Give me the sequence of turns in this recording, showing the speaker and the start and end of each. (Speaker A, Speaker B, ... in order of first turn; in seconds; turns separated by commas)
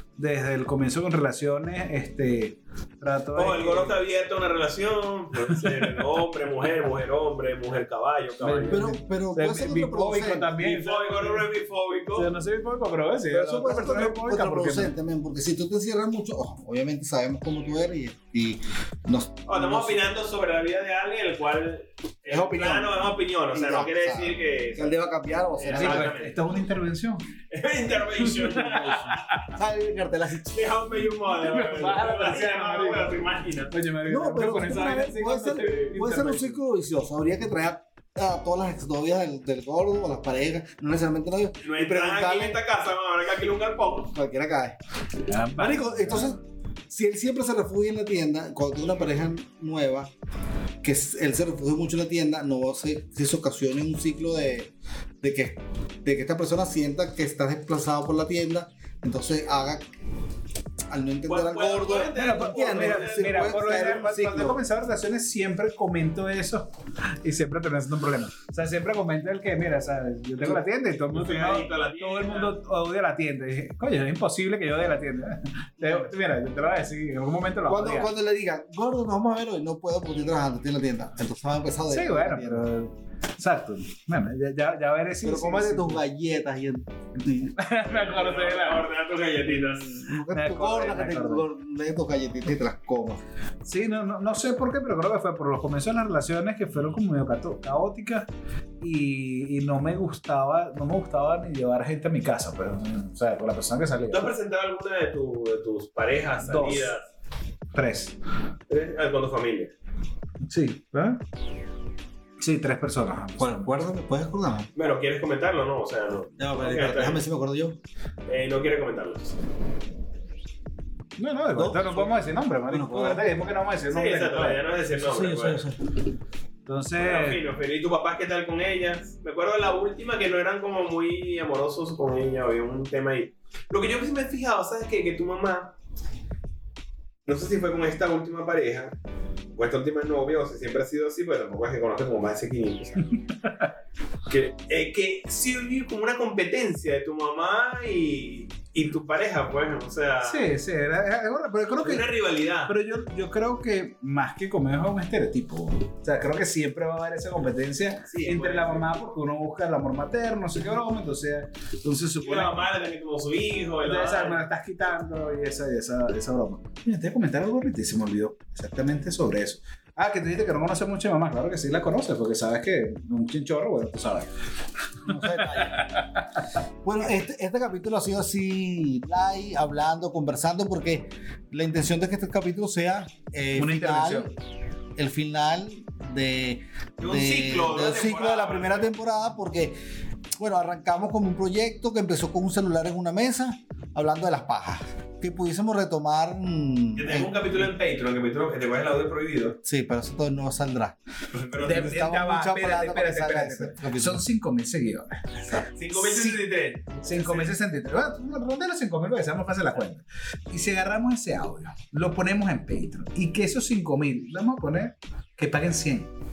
Speaker A: 0.2-4.0, Speaker B: 3.4-8.9, Speaker A: 5.6-6.0, Speaker A: 8.4-11.5, Speaker C: 8.7-10.5, Speaker B: 10.6-12.3, Speaker A: 12.2-14.9, Speaker C: 13.3-20.0, Speaker B: 19.5-25.0, Speaker C: 22.3-26.2, Speaker B: 25.6-26.4, Speaker A: 25.7-27.2, Speaker B: 27.5-29.2, Speaker A: 28.4-29.1, Speaker C: 28.4-30.8, Speaker B: 30.5-33.7, Speaker A: 31.4-33.2, Speaker A: 33.7-36.6, Speaker C: 34.1-42.6, Speaker B: 41.6-44.1, Speaker C: 44.1-44.8, Speaker A: 45.3-46.4, Speaker C: 45.6-46.4, Speaker C: 46.9-50.1, Speaker C: 50.8-59.9, Speaker C: 60.9-64.6, Speaker B: 61.3-63.9, Speaker A: 62.1-66.7, Speaker A: 67.2-78.1, Speaker B: 71.1-72.5, Speaker C: 75.8-76.1, Speaker C: 77.7-82.7, Speaker A: 81.9-86.0, Speaker C: 85.2-87.6, Speaker A: 87.6-88.9, Speaker B: 87.8-90.0, Speaker C: 89.8-93.2, Speaker A: 90.3-91.5, Speaker A: 93.7-98.3, Speaker A: 98.8-104.3, Speaker B: 104.1-107.0, Speaker A: 106.4-107.0, Speaker A: 107.7-108.2, Speaker B: 108.7-109.7, Speaker A: 110.5-111.2, Speaker A: 112.4-113.7, Speaker C: 113.4-114.7, Speaker B: 114.8-117.2, Speaker C: 116.4-117.8, Speaker B: 118.3-119.4, Speaker A: 121.2-124.6, Speaker C: 121.5-122.1, Speaker C: 122.7-123.2, Speaker B: 123.9-125.6, Speaker C: 125.0-125.8, Speaker A: 126.7-127.4, Speaker B: 127.0-135.8, Speaker B: 137.3-139.0, Speaker B: 139.6-143.1, Speaker A: 143.3-143.7, Speaker B: 144.3-150.5, Speaker A: 150.2-152.1, Speaker B: 151.8-152.7, Speaker A: 152.7-162.7, Speaker B: 158.1-158.9, Speaker B: 162.2-164.4, Speaker A: 163.8-174.3, Speaker C: 175.1-175.9, Speaker C: 176.8-184.3, Speaker A: 183.6-184.3, Speaker C: 185.0-189.8, Speaker B: 187.0-188.9, Speaker C: 190.4-197.7, Speaker B: 197.0-199.6, Speaker C: 199.6-201.0, Speaker B: 201.3-202.0, Speaker C: 201.6-204.2, Speaker A: 201.6-206.4, Speaker B: 205.7-207.5, Speaker A: 207.0-216.1